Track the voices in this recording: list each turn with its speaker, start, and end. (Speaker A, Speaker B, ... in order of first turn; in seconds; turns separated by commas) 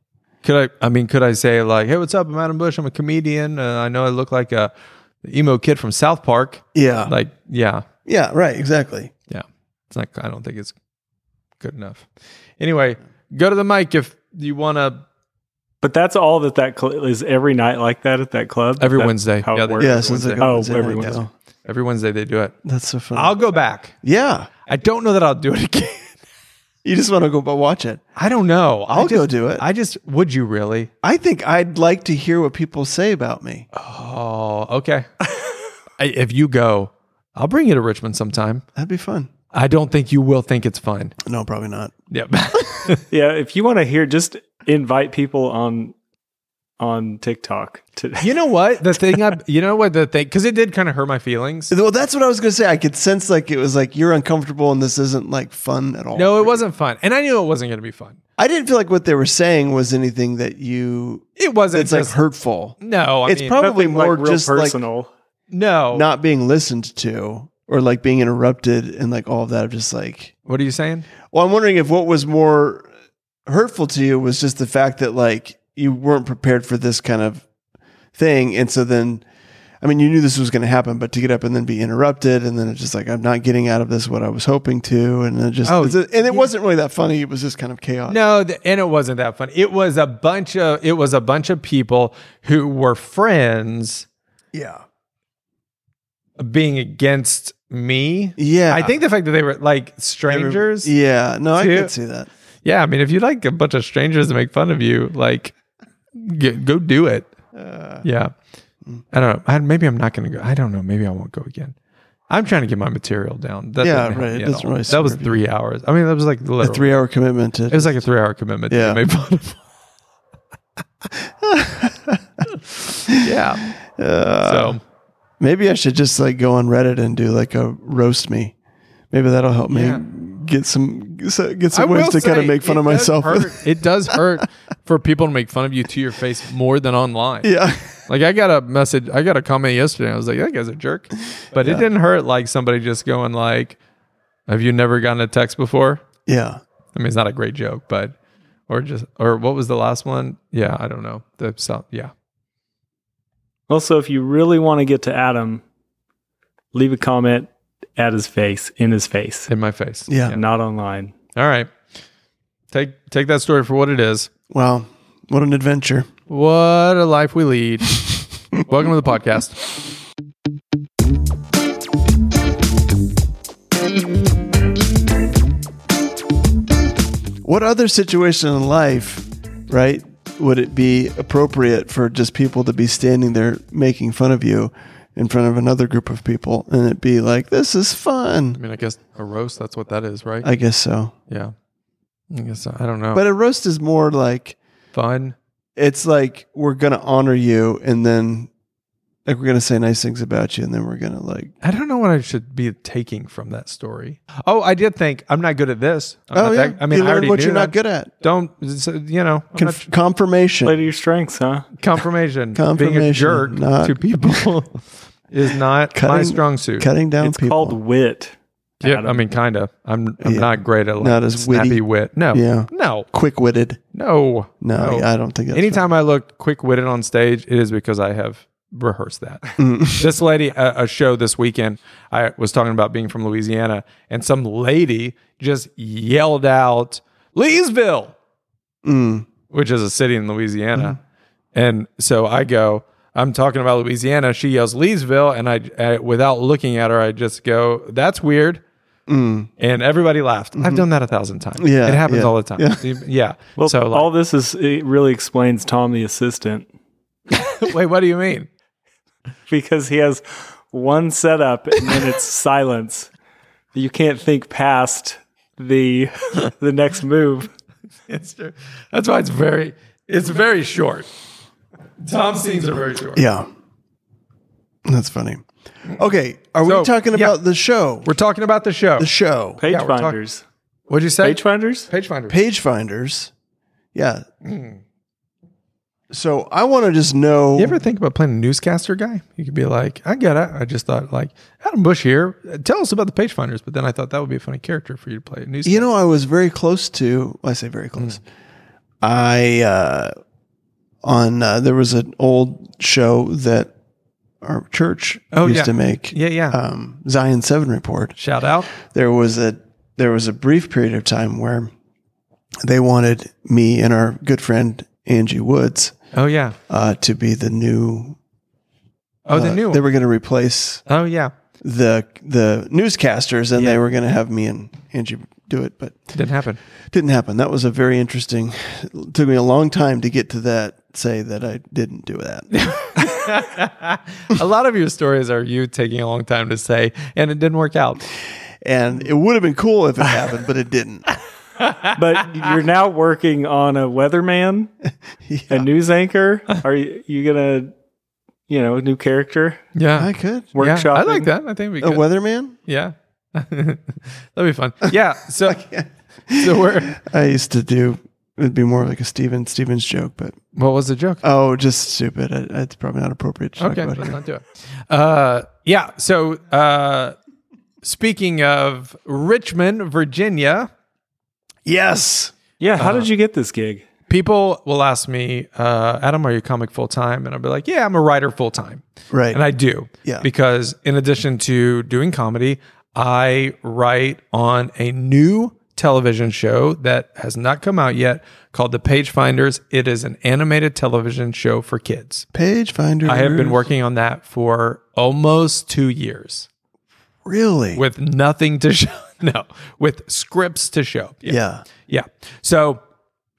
Speaker A: 0.4-4.7, Speaker A: 5.2-7.8, Speaker B: 6.7-7.1, Speaker B: 8.1-9.1, Speaker A: 9.3-10.7, Speaker A: 11.6-12.1, Speaker A: 12.6-15.0, Speaker C: 15.8-21.2, Speaker A: 18.8-21.1, Speaker B: 19.8-21.3, Speaker A: 21.6-22.6, Speaker B: 22.6-23.3, Speaker A: 23.1-23.9, Speaker B: 24.0-24.5, Speaker A: 24.6-26.2, Speaker B: 26.8-28.0, Speaker A: 28.1-30.9, Speaker B: 28.9-29.6, Speaker B: 31.0-33.7, Speaker A: 33.7-35.1, Speaker A: 36.0-38.6, Speaker B: 38.8-39.3, Speaker A: 39.5-41.1, Speaker B: 41.2-41.9, Speaker A: 42.1-43.0, Speaker C: 43.1-45.9, Speaker C: 46.8-48.4, Speaker A: 48.2-51.7, Speaker B: 51.7-56.6, Speaker A: 56.1-58.2, Speaker B: 58.4-64.8, Speaker A: 61.4-62.2, Speaker A: 62.8-63.6, Speaker C: 63.5-65.1, Speaker A: 65.5-66.0, Speaker B: 65.9-70.3, Speaker A: 70.5-71.1, Speaker B: 71.3-72.9, Speaker B: 73.5-77.5, Speaker B: 78.1-79.2, Speaker B: 79.8-88.2, Speaker A: 85.6-86.5, Speaker A: 88.1-94.1, Speaker B: 94.5-94.8, Speaker A: 96.4-100.9, Speaker B: 98.4-99.0, Speaker B: 100.3-102.3, Speaker A: 101.5-101.9, Speaker A: 102.6-105.5, Speaker A: 106.1-107.3, Speaker B: 107.5-108.0, Speaker A: 108.0-108.3, Speaker A: 109.1-111.7, Speaker A: 112.3-116.9, Speaker B: 113.8-115.4, Speaker B: 116.6-118.0, Speaker A: 117.7-119.6, Speaker B: 118.7-119.0, Speaker B: 121.1-122.4, Speaker B: 123.1-124.8, Speaker A: 123.1-123.7, Speaker A: 124.4-124.8, Speaker B: 125.4-128.5, Speaker B: 129.1-133.6, Speaker A: 129.7-130.0, Speaker A: 131.7-137.5, Speaker B: 137.4-138.0, Speaker A: 138.1-143.8, Speaker B: 141.6-141.8, Speaker A: 144.5-146.0, Speaker B: 146.2-146.6, Speaker A: 146.9-148.1, Speaker A: 148.7-152.1, Speaker C: 153.7-155.6, Speaker C: 156.7-159.5, Speaker A: 159.5-160.4, Speaker B: 160.1-160.3, Speaker C: 160.3-161.1, Speaker A: 161.3-161.7, Speaker A: 162.7-164.3, Speaker B: 164.5-166.1, Speaker A: 166.3-168.0, Speaker A: 168.5-169.6, Speaker B: 177.4-188.6, Speaker A: 188.5-190.5, Speaker B: 190.4-191.1, Speaker A: 191.3-191.5, Speaker A: 192.3-193.2, Speaker B: 193.1-194.6, Speaker A: 194.9-195.3, Speaker B: 195.8-198.5, Speaker B: 199.2-201.5, Speaker A: 201.6-209.8, Speaker B: 206.3-208.1, Speaker B: 209.5-210.8, Speaker C: 210.6-211.7, Speaker A: 211.8-216.9, Speaker B: 212.5-214.5, Speaker B: 215.9-217.8, Speaker C: 217.2-219.2, Speaker A: 218.8-223.1, Speaker B: 220.2-223.8, Speaker A: 223.9-238.2, Speaker B: 224.6-225.8, Speaker B: 229.6-230.1, Speaker B: 238.8-239.3, Speaker A: 239.5-241.0, Speaker A: 241.5-248.6, Speaker B: 249.1-249.5, Speaker A: 249.6-254.1, Speaker B: 250.6-250.8, Speaker B: 251.6-252.8, Speaker C: 253.6-256.7, Speaker A: 257.3-258.5, Speaker C: 259.5-263.1, Speaker C: 263.7-267.5, Speaker A: 268.1-271.1, Speaker A: 272.0-273.2, Speaker B: 273.1-273.5, Speaker B: 274.8-278.1, Speaker A: 276.6-277.3, Speaker A: 278.0-279.1, Speaker B: 279.0-279.6, Speaker C: 279.6-280.4, Speaker A: 279.6-280.2, Speaker A: 280.9-282.4, Speaker C: 281.2-281.9, Speaker B: 282.3-283.3, Speaker B: 283.9-284.2, Speaker A: 284.4-284.8, Speaker B: 286.1-287.8, Speaker A: 287.6-295.9, Speaker B: 295.6-298.2, Speaker B: 299.0-300.1, Speaker B: 301.0-303.7, Speaker B: 304.4-308.2, Speaker A: 305.3-306.6, Speaker A: 308.2-308.7, Speaker B: 308.7-311.7, Speaker B: 312.6-315.9, Speaker A: 316.1-316.6, Speaker B: 316.7-318.2, Speaker A: 319.2-319.8, Speaker B: 319.3-320.8, Speaker A: 320.9-321.3, Speaker B: 321.6-326.1, Speaker A: 326.1-326.6, Speaker B: 326.9-332.5, Speaker A: 332.5-338.0, Speaker B: 338.6-341.1, Speaker A: 341.6-342.0, Speaker C: 341.9-344.7, Speaker B: 345.2-345.7, Speaker C: 345.5-347.7, Speaker C: 348.5-349.6, Speaker A: 349.7-352.0, Speaker B: 349.9-350.5, Speaker C: 350.5-351.3, Speaker B: 351.8-352.6, Speaker A: 352.6-355.6, Speaker B: 354.9-360.4, Speaker A: 356.4-357.0, Speaker A: 360.5-361.2, Speaker B: 361.2-364.2, Speaker A: 363.6-367.1, Speaker A: 367.8-370.7, Speaker B: 371.6-372.3, Speaker C: 372.6-373.8, Speaker A: 372.8-373.1, Speaker A: 374.1-392.2, Speaker B: 379.1-379.4, Speaker B: 392.3-393.6, Speaker A: 393.0-396.5, Speaker B: 397.2-397.8, Speaker A: 397.7-402.8, Speaker B: 401.2-401.6